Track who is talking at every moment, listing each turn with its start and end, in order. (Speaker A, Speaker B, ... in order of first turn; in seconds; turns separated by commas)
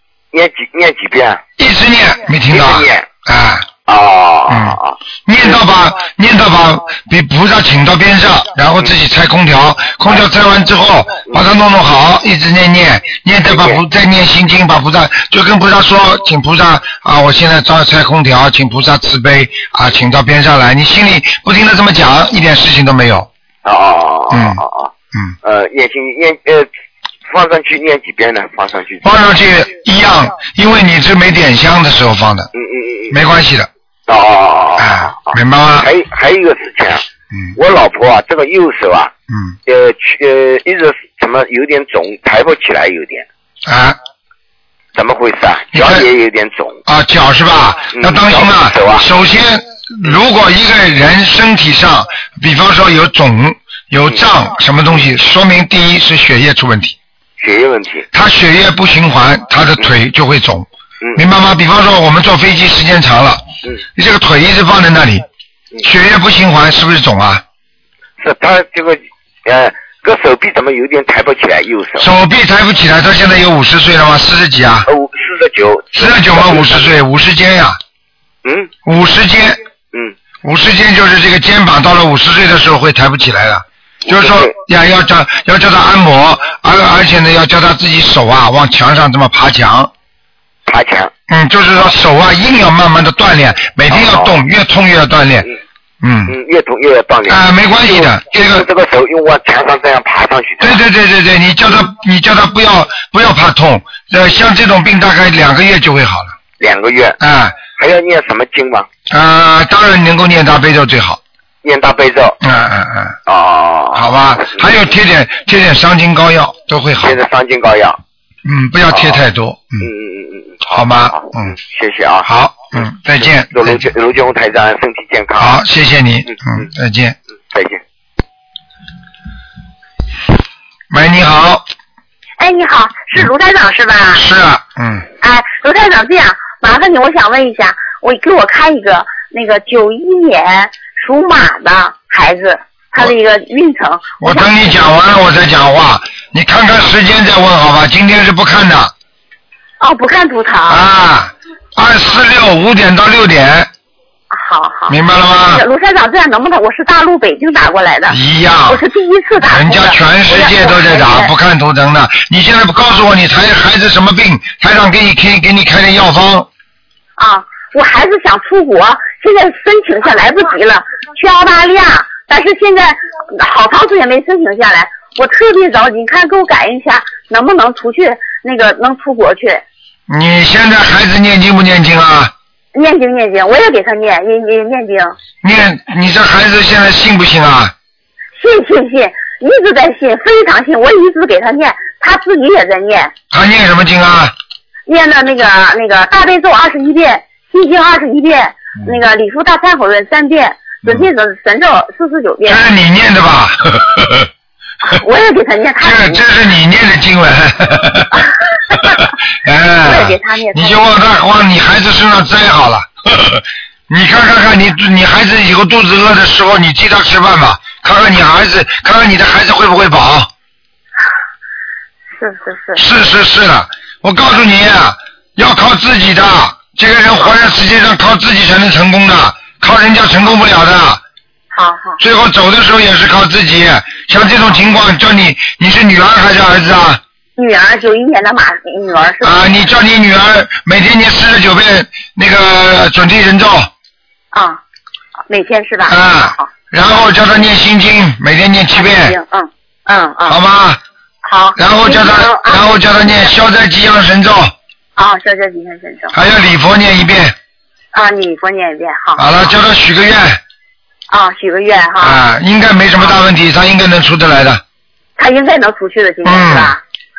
Speaker A: 0.3-1.4, Speaker B: 1.6-3.7, Speaker A: 2.5-3.1, Speaker A: 3.9-5.0, Speaker B: 4.5-23.3, Speaker A: 11.3-11.5, Speaker A: 13.5-13.8, Speaker A: 23.6-24.9, Speaker B: 24.3-24.6, Speaker A: 25.4-26.7, Speaker A: 27.3-29.1, Speaker B: 29.0-32.5, Speaker A: 32.5-33.2, Speaker B: 33.1-33.7, Speaker A: 34.1-39.1, Speaker B: 34.8-35.9, Speaker B: 39.3-39.6, Speaker A: 39.7-43.3, Speaker B: 43.7-44.0, Speaker A: 44.9-46.8, Speaker B: 45.7-46.1, Speaker B: 46.9-57.0, Speaker A: 47.9-49.1, Speaker A: 57.4-58.1, Speaker B: 58.1-63.4, Speaker B: 64.0-65.2, Speaker B: 65.8-67.4, Speaker A: 68.2-72.1, Speaker B: 72.0-74.9, Speaker A: 74.9-76.9, Speaker B: 75.9-77.8, Speaker A: 78.5-78.7, Speaker B: 78.9-79.6, Speaker B: 80.4-89.9, Speaker A: 84.1-84.5, Speaker A: 90.7-91.1, Speaker B: 91.3-95.5, Speaker A: 93.9-94.3, Speaker B: 96.0-96.3, Speaker A: 96.3-100.8, Speaker B: 97.3-98.7, Speaker B: 100.6-106.3, Speaker A: 106.6-107.2, Speaker B: 107.2-107.6, Speaker A: 107.7-108.9, Speaker B: 109.1-111.2, Speaker A: 111.6-112.4, Speaker B: 112.4-113.2, Speaker A: 113.3-114.8, Speaker B: 114.0-117.2, Speaker A: 117.0-118.0, Speaker B: 118.5-119.9, Speaker A: 118.9-119.2, Speaker A: 119.8-125.6, Speaker B: 120.7-121.5, Speaker B: 122.2-123.8, Speaker B: 125.4-127.2, Speaker A: 126.3-126.6, Speaker A: 127.5-127.8, Speaker B: 130.9-131.6, Speaker C: 132.4-134.2, Speaker B: 134.1-135.1, Speaker C: 135.2-144.7, Speaker B: 144.2-148.9, Speaker C: 149.8-150.8, Speaker B: 150.7-153.7, Speaker C: 154.3-155.0, Speaker B: 154.9-155.6, Speaker C: 155.5-161.3, Speaker B: 158.1-158.8, Speaker B: 159.4-166.5, Speaker C: 167.2-179.6, Speaker B: 180.1-182.3, Speaker C: 182.7-185.2, Speaker B: 185.4-187.7, Speaker C: 188.4-193.1, Speaker B: 193.3-194.3, Speaker C: 194.9-202.7, Speaker B: 202.4-204.3, Speaker C: 204.8-206.2, Speaker B: 205.8-208.1, Speaker C: 208.7-209.1, Speaker B: 209.4-220.3, Speaker C: 209.8-210.9, Speaker C: 222.2-222.8, Speaker B: 222.8-231.0, Speaker C: 231.5-232.0, Speaker B: 232.0-237.0, Speaker C: 237.4-239.4, Speaker B: 239.2-243.7, Speaker C: 244.3-244.6, Speaker C: 245.3-247.1, Speaker B: 245.9-249.2, Speaker C: 248.8-250.4, Speaker B: 250.3-250.8, Speaker C: 251.2-253.3, Speaker B: 251.6-254.5, Speaker C: 255.0-256.2, Speaker B: 256.1-257.4, Speaker C: 257.9-259.5, Speaker B: 259.2-260.4, Speaker C: 261.1-262.2, Speaker B: 262.0-264.6, Speaker C: 265.2-266.8, Speaker B: 266.2-266.7